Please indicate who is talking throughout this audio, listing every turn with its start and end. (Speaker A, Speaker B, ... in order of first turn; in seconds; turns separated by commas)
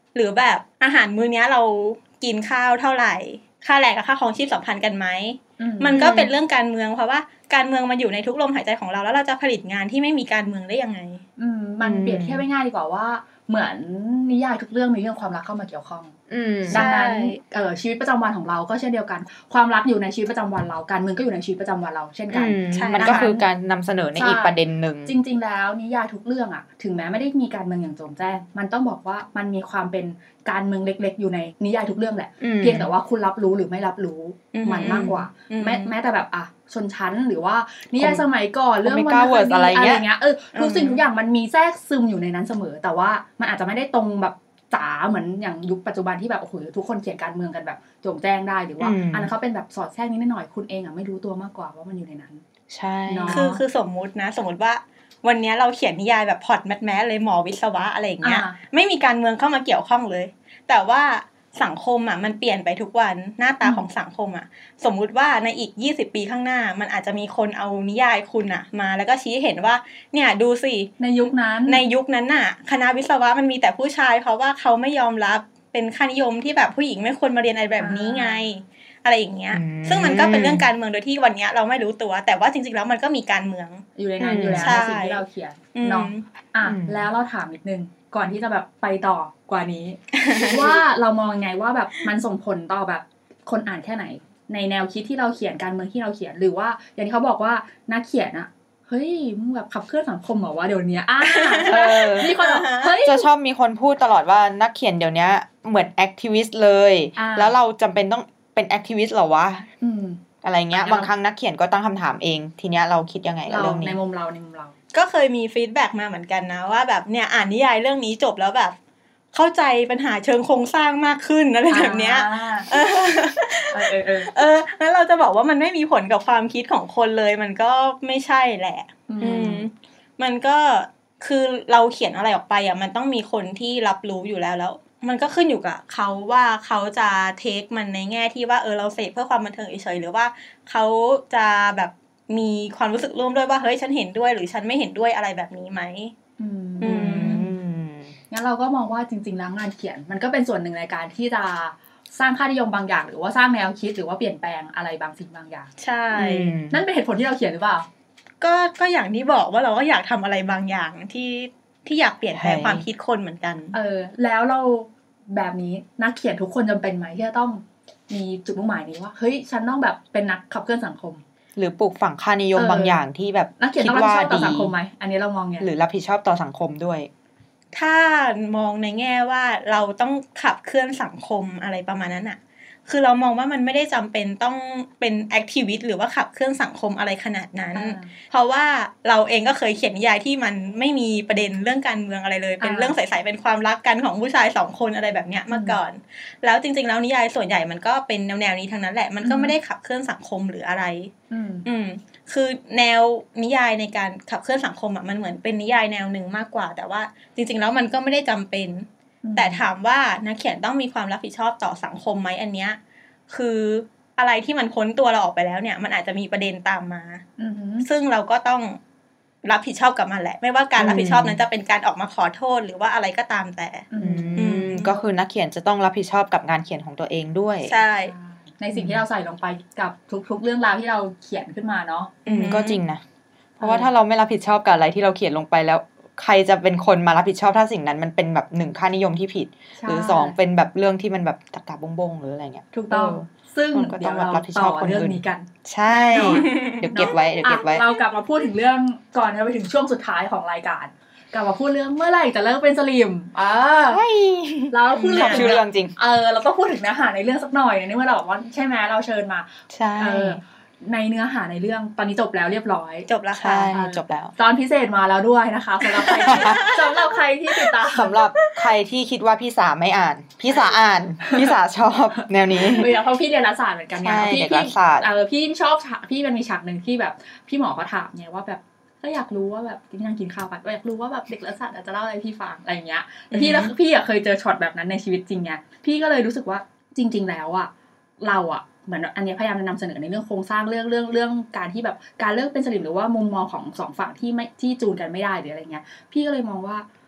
Speaker A: 0.1-11.2, Speaker B: 5.6-6.1, Speaker C: 5.9-6.3, Speaker B: 11.4-16.2, Speaker C: 11.8-12.4, Speaker C: 16.3-16.9, Speaker B: 16.7-23.5, Speaker A: 16.7-17.4, Speaker C: 22.3-25.1, Speaker A: 22.7-23.3, Speaker B: 24.2-52.4, Speaker C: 32.4-32.9, Speaker A: 34.5-35.9, Speaker C: 34.8-35.2, Speaker C: 38.0-38.2, Speaker C: 38.8-40.0, Speaker A: 40.5-41.0, Speaker C: 48.8-49.3, Speaker C: 52.7-53.5, Speaker B: 53.1-53.6, Speaker A: 53.3-71.0, Speaker B: 58.2-58.6, Speaker B: 71.0-71.8, Speaker A: 71.7-83.8, Speaker B: 77.8-78.4, Speaker C: 79.5-80.7, Speaker B: 84.0-103.3, Speaker C: 84.2-84.8, Speaker A: 84.6-85.2, Speaker A: 85.7-86.2, Speaker C: 86.7-87.1, Speaker A: 90.1-90.8, Speaker A: 101.2-103.0, Speaker C: 101.7-102.3, Speaker C: 103.0-109.7, Speaker B: 107.2-107.5, Speaker B: 109.8-110.2, Speaker C: 110.4-114.0, Speaker B: 110.8-111.1, Speaker B: 113.5-114.8, Speaker A: 114.9-118.8, Speaker A: 119.3-146.1, Speaker B: 121.7-122.8, Speaker B: 123.7-124.3, Speaker B: 129.1-129.6, Speaker B: 146.4-147.5, Speaker A: 146.8-147.4, Speaker C: 146.8-148.1, Speaker B: 148.3-155.7, Speaker A: 155.8-156.5, Speaker C: 156.2-156.8, Speaker B: 156.7-157.9, Speaker A: 158.4-163.7, Speaker C: 162.3-162.8, Speaker B: 163.7-171.2, Speaker C: 171.6-174.7, Speaker B: 172.6-173.0, Speaker B: 173.6-175.7, Speaker C: 175.6-177.1, Speaker A: 177.7-201.1, Speaker B: 187.8-188.1, Speaker B: 192.6-193.0, Speaker B: 195.5-195.8, Speaker B: 199.2-199.6, Speaker B: 201.3-201.7, Speaker A: 201.7-212.8, Speaker B: 209.2-209.6, Speaker A: 213.3-217.2, Speaker B: 217.4-217.9, Speaker A: 217.8-218.8, Speaker A: 219.4-224.8, Speaker C: 220.8-221.4, Speaker B: 223.9-224.9, Speaker C: 224.0-227.8, Speaker A: 227.7-228.1, Speaker B: 228.1-232.1, Speaker C: 228.8-229.0, Speaker A: 232.3-232.8, Speaker C: 232.3-233.0, Speaker B: 233.6-233.9, Speaker C: 233.6-247.8, Speaker B: 239.8-240.3, Speaker B: 242.7-254.0, Speaker A: 246.1-246.9, Speaker C: 253.9-255.9, Speaker B: 254.7-263.1, Speaker A: 255.0-255.6, Speaker C: 259.7-260.4, Speaker A: 263.1-263.7, Speaker C: 263.4-264.3, Speaker B: 263.7-268.2, Speaker C: 266.1-266.7, Speaker A: 266.2-267.1, Speaker C: 267.9-273.0, Speaker B: 271.2-271.5, Speaker B: 272.2-296.9, Speaker C: 274.0-275.1, Speaker C: 283.3-283.7